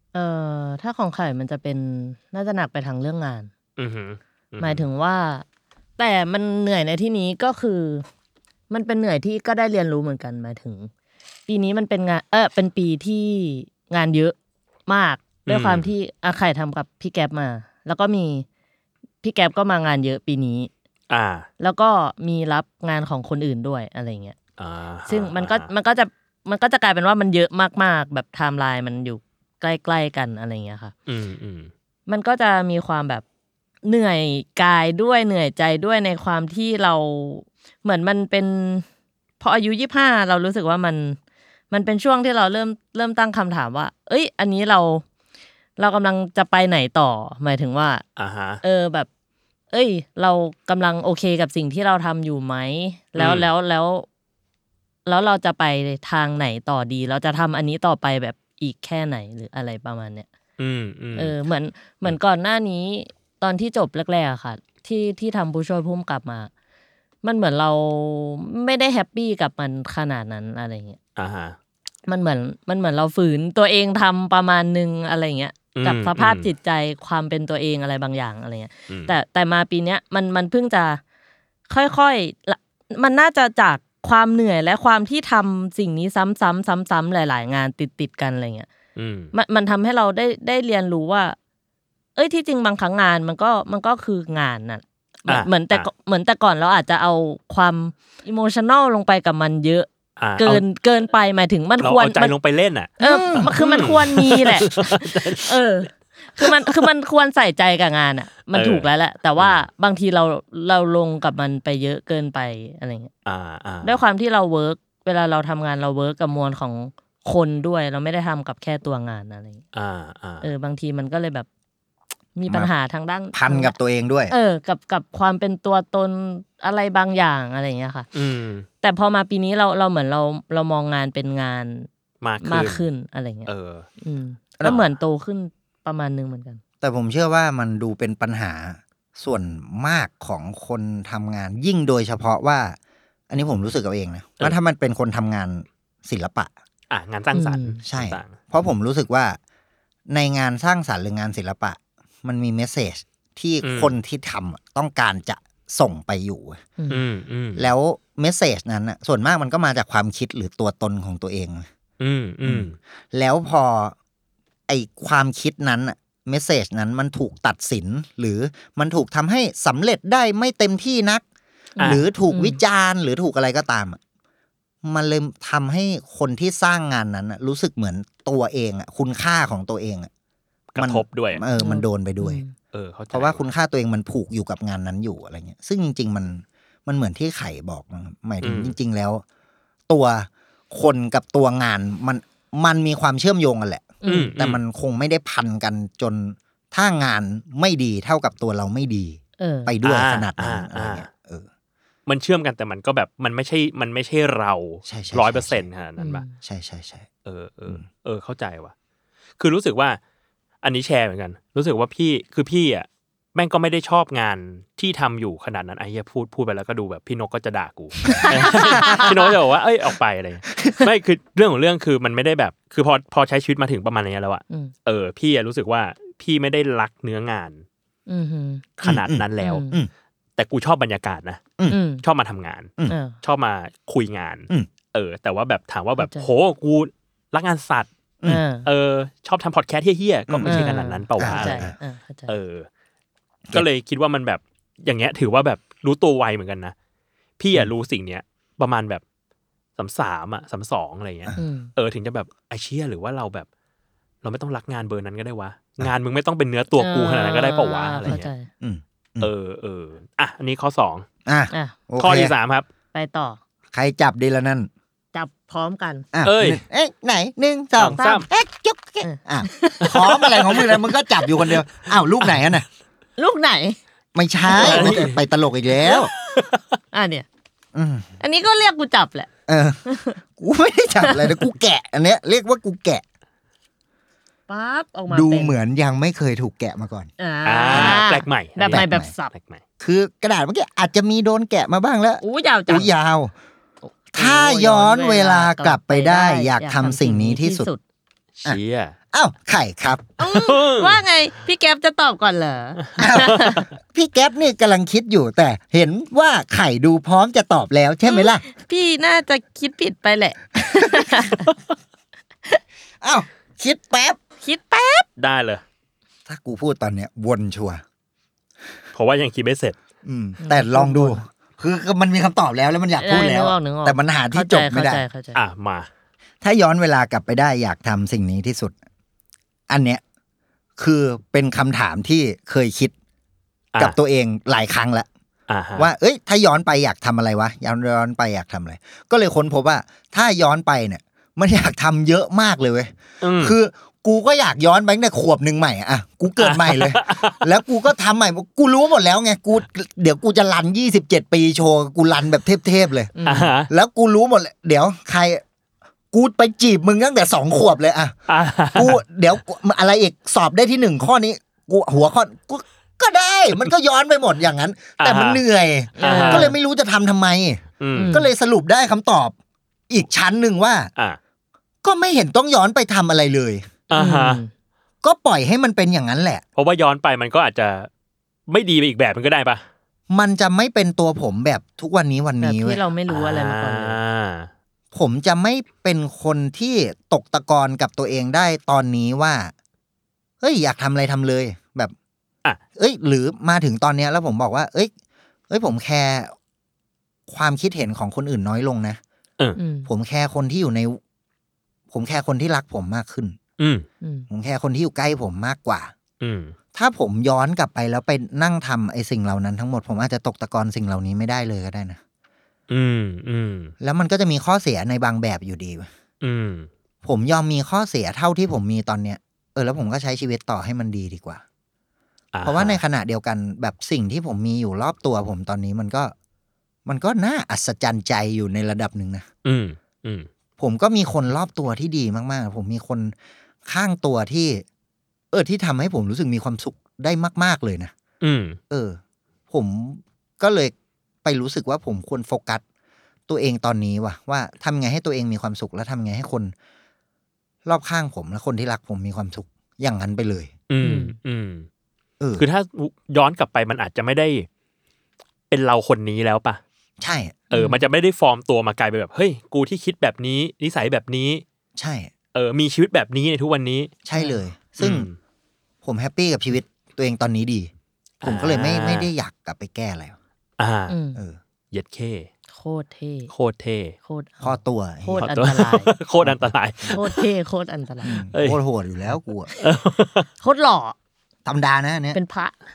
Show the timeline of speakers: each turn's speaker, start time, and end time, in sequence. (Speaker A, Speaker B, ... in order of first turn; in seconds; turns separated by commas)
Speaker A: 0.1-3.5, Speaker B: 3.8-4.8, Speaker A: 4.6-5.4, Speaker A: 6.0-8.0, Speaker A: 8.7-10.9, Speaker A: 11.5-14.3, Speaker A: 14.9-18.4, Speaker B: 15.5-15.9, Speaker A: 19.2-20.7, Speaker B: 21.1-21.5, Speaker A: 21.6-24.4, Speaker B: 24.6-25.7, Speaker A: 25.1-30.9, Speaker B: 31.1-31.7, Speaker A: 32.1-33.2, Speaker A: 33.9-38.9, Speaker A: 39.4-41.2, Speaker A: 41.7-45.0, Speaker A: 45.8-48.0, Speaker B: 48.2-48.6, Speaker A: 48.6-49.1, Speaker A: 49.7-54.0, Speaker B: 53.2-53.5, Speaker A: 55.0-60.3, Speaker B: 60.6-61.3, Speaker A: 61.1-66.5, Speaker A: 67.2-71.0, Speaker B: 71.2-71.5, Speaker A: 72.1-81.0, Speaker B: 75.7-76.5, Speaker A: 81.7-88.7, Speaker B: 89.0-89.3, Speaker A: 89.3-91.3, Speaker A: 92.2-102.3, Speaker B: 95.3-95.9, Speaker B: 100.2-100.6, Speaker B: 101.8-105.5, Speaker A: 103.0-113.1, Speaker B: 106.4-106.7, Speaker B: 108.5-108.8, Speaker B: 109.4-109.6, Speaker B: 113.2-114.0, Speaker A: 113.8-119.6, Speaker B: 119.7-120.5, Speaker A: 120.4-121.5, Speaker A: 122.3-123.8, Speaker C: 123.3-124.3, Speaker A: 124.3-128.1, Speaker B: 128.1-128.7, Speaker A: 128.8-131.9, Speaker B: 132.2-132.8, Speaker A: 132.4-133.5, Speaker B: 133.5-133.9, Speaker A: 134.0-136.6, Speaker C: 136.8-142.8, Speaker C: 143.3-146.5, Speaker B: 146.9-148.4, Speaker A: 147.3-147.8, Speaker C: 147.8-149.4, Speaker C: 150.1-156.6, Speaker B: 153.6-153.9, Speaker B: 156.9-157.7, Speaker C: 157.6-161.7, Speaker B: 162.0-162.8, Speaker C: 162.4-163.9, Speaker C: 164.7-171.2, Speaker A: 171.8-172.6, Speaker C: 171.8-174.0, Speaker C: 174.8-180.1, Speaker B: 180.7-181.4, Speaker C: 180.8-182.4, Speaker A: 181.6-182.5, Speaker B: 182.7-183.4, Speaker C: 183.1-189.2, Speaker B: 188.4-188.7, Speaker C: 189.9-201.5, Speaker A: 194.0-194.3, Speaker B: 194.1-194.6, Speaker A: 199.4-199.7, Speaker B: 199.8-201.1, Speaker B: 202.1-206.2, Speaker C: 204.8-205.7, Speaker A: 206.0-206.3, Speaker C: 206.4-207.1, Speaker B: 207.2-208.7, Speaker B: 209.4-210.0, Speaker B: 210.6-227.6, Speaker A: 218.1-219.1, Speaker C: 218.7-219.0, Speaker A: 228.1-228.7, Speaker B: 228.8-229.6, Speaker C: 228.8-229.9, Speaker A: 229.4-229.8, Speaker B: 230.4-231.4, Speaker A: 231.7-232.0, Speaker B: 232.0-237.9, Speaker A: 232.9-233.2, Speaker A: 236.0-236.3, Speaker A: 238.3-238.7, Speaker B: 238.6-241.7, Speaker C: 240.3-240.6, Speaker A: 240.4-242.3, Speaker C: 241.2-241.7, Speaker B: 242.3-242.7, Speaker B: 243.5-246.7, Speaker B: 247.4-249.0, Speaker B: 249.8-253.5, Speaker A: 251.4-251.7, Speaker B: 254.2-258.3, Speaker A: 256.8-258.5, Speaker C: 258.1-259.3, Speaker B: 259.2-261.1, Speaker C: 261.2-262.3, Speaker A: 261.5-261.8, Speaker B: 262.0-262.6, Speaker A: 262.9-263.4, Speaker C: 263.7-264.7, Speaker A: 265.1-266.1, Speaker C: 266.1-272.6, Speaker B: 266.2-266.6, Speaker B: 267.8-268.2, Speaker A: 268.0-268.3, Speaker A: 269.0-270.7, Speaker A: 273.2-273.8, Speaker C: 274.1-276.1, Speaker A: 274.5-275.0, Speaker B: 274.5-275.2, Speaker B: 275.9-276.6, Speaker A: 276.9-277.2, Speaker C: 277.7-278.1, Speaker A: 278.2-279.3, Speaker C: 279.5-279.8, Speaker A: 279.9-280.2, Speaker C: 280.3-283.0, Speaker A: 281.0-281.3, Speaker A: 284.5-285.6, Speaker C: 285.1-287.1, Speaker A: 287.2-289.3, Speaker B: 287.4-289.6, Speaker C: 287.7-288.0, Speaker C: 288.7-289.1, Speaker C: 289.8-293.3, Speaker A: 292.2-292.9, Speaker C: 294.1-297.7, Speaker A: 294.1-297.8, Speaker B: 298.4-298.9, Speaker C: 299.1-300.1, Speaker A: 300.2-303.6, Speaker B: 300.3-301.0, Speaker C: 303.0-308.4, Speaker A: 308.1-311.5, Speaker C: 313.0-314.2, Speaker A: 314.4-315.1, Speaker B: 315.2-315.6, Speaker C: 316.3-317.8, Speaker B: 318.9-319.8, Speaker C: 320.0-325.0, Speaker A: 320.4-321.2, Speaker A: 323.0-325.4, Speaker B: 325.3-325.9, Speaker C: 326.4-328.7, Speaker C: 329.7-330.0, Speaker C: 330.8-332.9, Speaker C: 333.8-335.1, Speaker B: 335.5-335.9, Speaker C: 335.8-353.1, Speaker B: 343.2-343.6, Speaker B: 346.4-347.4, Speaker A: 353.1-353.5, Speaker B: 353.2-353.7, Speaker C: 353.7-355.4, Speaker C: 356.1-358.1, Speaker B: 358.3-359.0, Speaker C: 358.7-369.3, Speaker B: 365.0-365.4, Speaker A: 366.0-366.5, Speaker B: 366.0-366.5, Speaker B: 367.8-368.2, Speaker A: 367.9-368.3, Speaker C: 369.9-370.9, Speaker C: 371.8-373.7, Speaker B: 373.9-374.4, Speaker A: 373.9-374.5, Speaker C: 375.0-376.4, Speaker B: 376.6-377.9, Speaker B: 378.5-379.6, Speaker C: 380.1-382.8, Speaker A: 382.4-384.0, Speaker B: 383.1-384.5, Speaker C: 384.9-389.5, Speaker C: 390.4-391.9, Speaker C: 392.8-394.9, Speaker C: 395.5-396.3, Speaker C: 397.3-399.0, Speaker A: 399.6-399.9, Speaker C: 399.9-401.0, Speaker C: 401.9-403.4, Speaker B: 403.6-403.9, Speaker A: 404.0-404.3, Speaker C: 404.3-405.9, Speaker B: 406.2-406.5, Speaker C: 406.7-412.0, Speaker B: 412.7-413.7, Speaker C: 413.8-415.9, Speaker B: 416.2-416.7, Speaker C: 417.0-421.4, Speaker B: 422.3-422.8, Speaker C: 422.4-426.1, Speaker C: 426.9-429.2, Speaker B: 429.4-430.3, Speaker C: 430.6-433.1, Speaker C: 433.6-434.6, Speaker C: 435.3-437.9, Speaker B: 438.2-438.6, Speaker C: 438.7-439.0, Speaker C: 439.5-440.7, Speaker C: 441.2-442.6, Speaker C: 443.3-446.5, Speaker C: 447.6-450.5, Speaker B: 450.7-451.7, Speaker A: 450.8-451.1, Speaker C: 452.2-452.4, Speaker B: 452.4-454.5, Speaker B: 455.5-456.6, Speaker C: 457.0-457.5, Speaker B: 457.5-461.4, Speaker A: 457.5-457.8, Speaker C: 461.8-462.1, Speaker B: 462.3-463.9, Speaker C: 464.0-465.1, Speaker A: 464.1-464.4, Speaker B: 464.8-465.2, Speaker C: 465.8-467.7, Speaker B: 468.2-469.1, Speaker C: 468.2-470.1, Speaker B: 470.6-470.9, Speaker A: 470.9-471.2, Speaker B: 471.7-472.3, Speaker A: 472.5-473.3, Speaker B: 473.3-473.9, Speaker A: 474.0-475.9, Speaker C: 474.4-475.2, Speaker B: 475.2-477.2, Speaker C: 476.2-477.0, Speaker A: 476.9-478.2, Speaker C: 478.0-479.5, Speaker B: 478.3-478.6, Speaker B: 479.6-480.3, Speaker A: 480.4-480.9, Speaker C: 481.4-482.2, Speaker A: 482.1-482.5